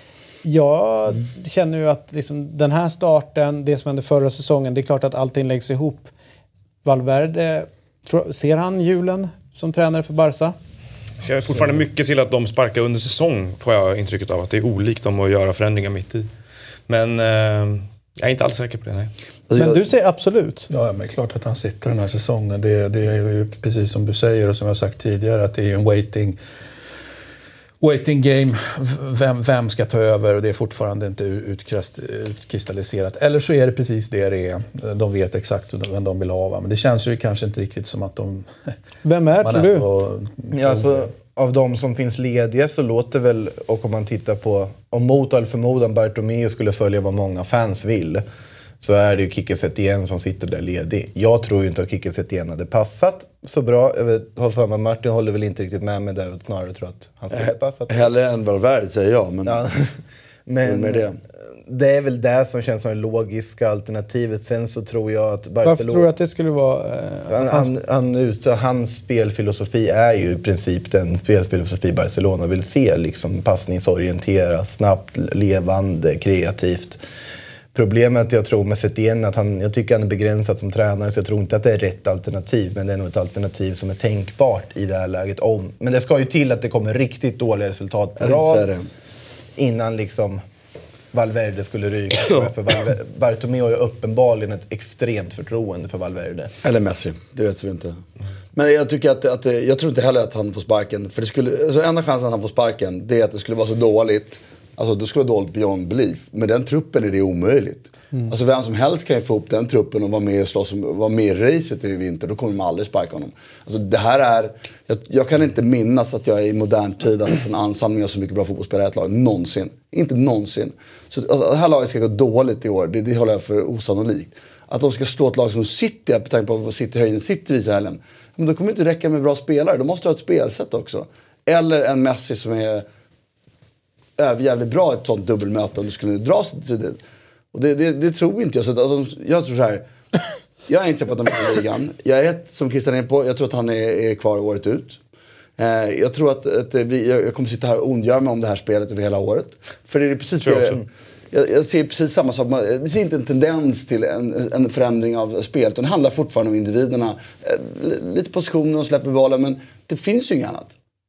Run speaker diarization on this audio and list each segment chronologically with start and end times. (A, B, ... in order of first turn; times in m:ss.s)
0:00.4-0:06.1 A
0:06.8-0:10.6 A
0:11.2-0:16.3 B
0:16.9-0:19.1 B
0:19.5-0:19.9 C
0:19.6-0:20.7 A
0:20.7-0:26.4 D
0:27.8-0:38.7 D
0:39.0-0:39.9 A
0:39.4-0:41.1 D
0:40.5-0:48.2 E
0:48.8-0:58.1 E
0:57.3-0:59.6 C
0:59.4-1:01.0 E
1:00.6-1:01.2 C
1:01.6-1:06.1 E
1:05.6-1:07.7 A
1:07.3-1:17.0 E
1:17.7-1:28.7 E
1:28.2-1:28.9 C
1:29.6-1:30.4 E
1:31.1-1:36.5 E
1:36.6-1:38.0 C
1:38.6-2:12.8 C
2:14.2-2:17.0 C
2:17.5-2:19.9 C
2:20.7-2:25.0 C
2:25.6-2:40.7 C
2:30.4-2:30.8 B